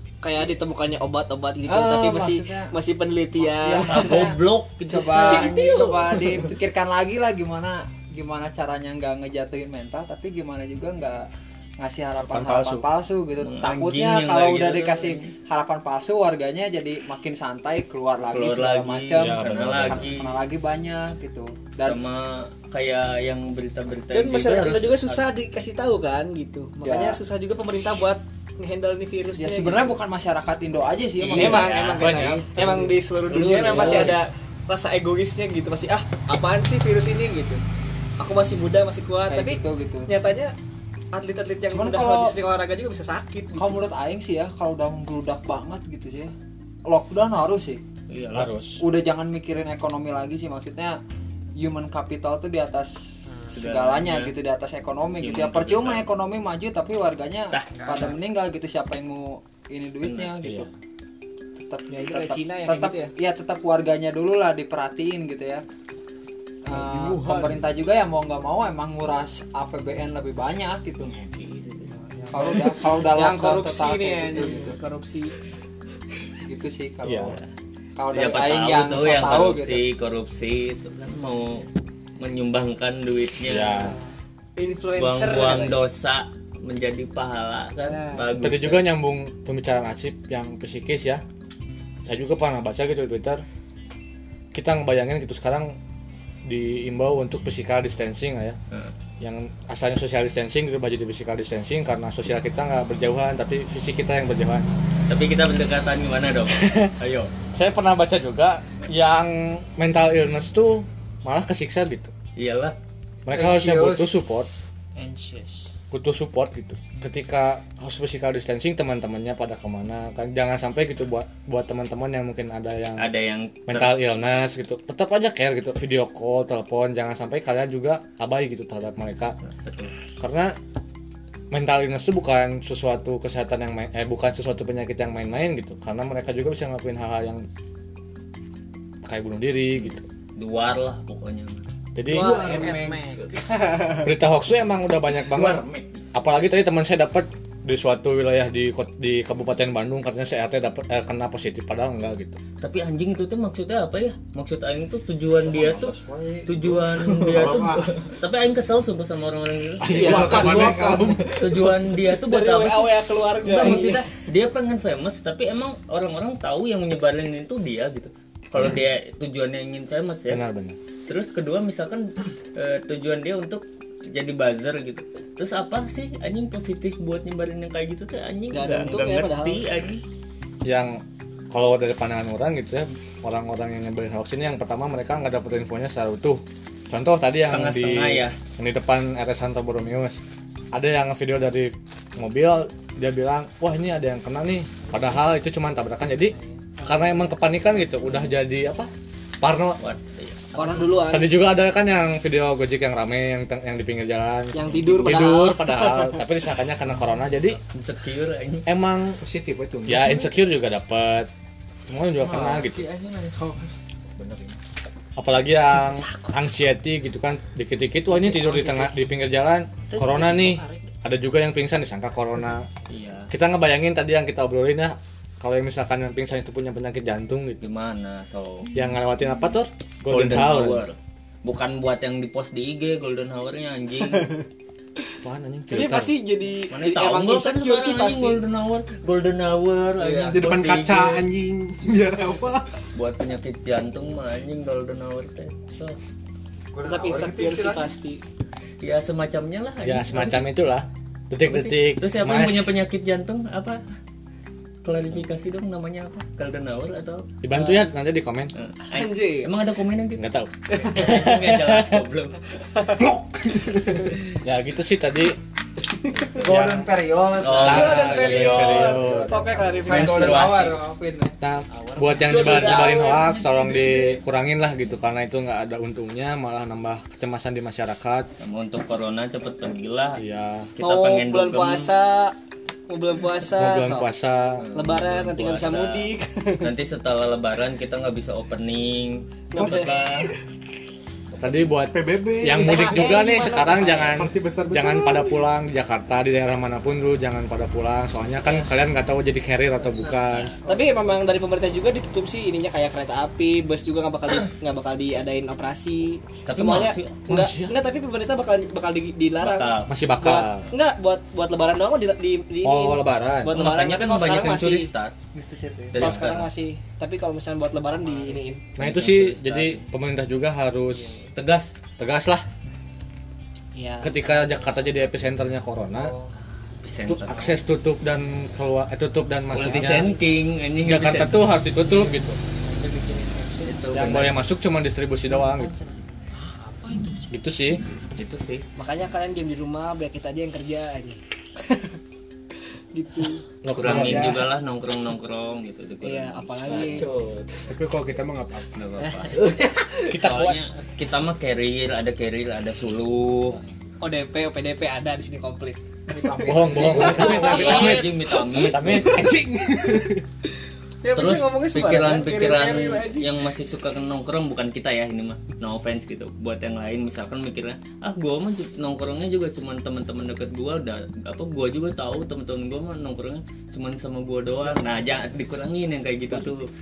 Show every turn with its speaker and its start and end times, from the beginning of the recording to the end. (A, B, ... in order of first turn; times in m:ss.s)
0:00.2-0:04.3 A
0:01.7-0:02.7 B
0:03.4-0:04.4 B
0:03.9-0:06.4 C
0:04.9-0:11.2 B
0:05.1-0:06.1 A
0:11.8-0:22.0 B
0:12.3-0:12.8 D
0:13.4-0:15.3 C
0:18.3-0:20.3 C
0:19.2-0:20.1 D
0:21.8-0:25.3 C
0:24.1-0:29.9 A
0:26.8-0:27.2 B
0:29.4-0:31.7 B
0:31.2-0:34.2 C
0:31.3-0:37.6 A
0:32.0-0:32.5 D
0:33.6-0:34.2 B
0:38.2-0:40.5 A
0:39.3-0:40.1 B
0:41.1-0:43.8 A
0:41.7-0:42.3 B
0:43.5-0:46.3 B
0:46.9-0:47.8 B
0:48.1-0:48.5 C
0:48.3-0:48.8 D
0:48.8-0:51.0 B
0:51.6-1:00.7 B
0:53.5-0:54.4 C
0:55.2-0:56.1 C
0:57.5-0:58.1 C
1:00.0-1:00.7 C
1:01.6-1:05.6 B
1:01.9-1:03.1 A
1:06.6-1:11.1 B
1:06.7-1:07.6 A
1:11.2-1:11.9 E
1:11.9-1:15.3 A
1:12.3-1:14.8 B
1:16.5-1:17.4 B
1:17.0-1:17.4 D
1:18.0-1:19.8 B
1:18.1-1:21.7 C
1:22.2-1:24.0 C
1:23.5-1:24.0 D
1:24.6-1:25.8 A
1:25.0-1:28.8 C
1:27.8-1:28.3 A
1:28.4-1:31.2 D
1:32.0-1:33.4 D
1:34.5-1:35.7 D
1:36.5-1:38.6 D
1:39.2-1:44.7 D
1:45.1-1:47.3 C
1:46.6-1:46.9 A
1:47.5-1:52.1 D
1:52.4-1:52.8 C
1:53.2-1:54.5 D
1:53.3-1:54.1 B
1:55.0-1:55.7 B
1:55.9-2:03.1 D
2:03.0-2:04.0 C
2:03.7-2:09.4 D
2:09.4-2:09.9 C
2:10.2-2:10.5 D
2:11.5-2:17.4 D
2:19.0-2:20.0 D
2:19.8-2:21.6 C
2:22.0-2:22.6 D
2:22.1-2:24.1 A
2:22.1-2:23.4 E
2:22.5-2:23.2 B
2:24.0-2:32.4 D
2:25.3-2:26.0 E
2:32.6-2:35.9 C
2:35.3-2:38.0 E
2:36.5-2:50.4 C
2:39.8-2:41.9 E
2:39.9-2:41.0 A
2:40.4-2:40.9 D
2:42.3-2:44.1 A
2:50.3-2:50.8 D
2:51.1-3:00.0 C
2:58.5-2:59.6 A
3:00.6-3:10.2 D
3:07.5-3:08.4 C
3:10.7-3:18.9 D
3:19.4-3:19.8 D
3:19.8-3:20.9 C
3:20.5-3:21.3 A
3:21.1-3:27.6 D
3:24.5-3:26.2 A
3:27.7-3:28.7 C
3:28.7-3:29.2 D
3:29.2-3:30.3 E
3:29.9-3:31.3 D
3:31.9-3:32.9 D
3:32.2-3:34.6 E
3:35.2-3:42.7 D
3:38.4-3:38.8 B
3:39.9-3:40.9 B
3:42.9-3:43.3 C
3:43.3-3:47.6 D
3:47.6-3:48.7 C
3:48.8-3:50.8 D
3:50.1-3:54.3 C
3:55.2-3:56.1 D
3:55.7-3:58.4 A
3:56.7-4:01.3 C
4:00.0-4:00.4 B
4:00.2-4:02.8 E
4:03.0-4:06.0 C
4:06.7-4:07.9 B
4:06.8-4:08.2 A
4:08.8-4:10.4 C
4:09.8-4:12.8 D
4:11.4-4:13.8 C
4:14.8-4:17.3 C
4:17.4-4:18.5 D
4:17.5-4:17.9 A
4:18.6-4:20.2 C
4:18.9-4:19.5 A
4:20.2-4:20.5 D
4:20.7-4:22.0 A
4:20.8-4:22.6 C
4:22.6-4:23.1 A
4:23.0-4:24.1 E
4:24.4-4:25.4 D
4:25.9-4:26.5 A
4:26.4-4:26.9 D
4:26.4-4:31.4 B
4:27.4-4:28.9 C
4:27.6-4:30.5 A
4:27.6-4:29.4 D
4:29.8-4:30.8 C
4:31.4-4:38.3 D
4:31.7-4:32.6 C
4:32.0-4:33.9 A
4:38.4-4:40.2 C
4:40.2-4:40.7 D
4:40.8-4:41.9 C
4:40.8-4:42.3 A
4:42.9-4:44.1 A
4:43.5-4:44.6 D
4:44.6-4:50.3 C
4:44.7-4:46.7 A
4:49.5-4:50.3 A
4:51.4-5:00.5 D
4:51.9-4:53.2 E
4:52.6-4:54.2 A
4:54.1-4:55.5 E
5:00.0-5:00.6 C
5:00.7-5:14.9 A
5:06.5-5:07.2 C
5:07.3-5:07.7 D
5:09.4-5:09.9 C
5:09.9-5:10.7 D
5:12.6-5:13.5 D
5:13.5-5:15.1 C
5:15.4-5:16.1 B
5:15.9-5:16.5 C
5:16.0-5:18.7 A
5:18.1-5:18.4 B
5:18.8-5:19.8 C
5:18.8-5:21.2 D
5:21.4-5:21.7 C
5:22.0-5:22.4 D
5:23.8-5:24.7 A
5:24.0-5:26.1 D
5:25.9-5:26.3 B
5:26.8-5:27.6 C
5:27.0-5:30.2 D
5:29.5-5:31.4 C
5:30.8-5:32.4 D
5:32.7-5:33.7 B
5:33.6-5:34.4 C
5:33.9-5:35.8 D
5:35.6-5:35.9 B
5:37.3-5:37.8 D
5:38.2-5:38.6 C
5:38.8-5:42.0 A
5:42.9-5:44.5 A
5:43.6-5:44.5 D
5:43.8-5:47.1 C
5:46.0-5:47.1 A
5:46.7-5:49.7 E
5:48.8-5:53.6 C
5:50.0-5:50.6 D
5:54.0-5:59.3 A
5:56.1-5:58.0 B
5:56.4-5:59.4 D
5:57.1-5:59.1 C
5:58.7-6:00.2 E
6:01.0-6:03.3 A
6:01.2-6:16.6 C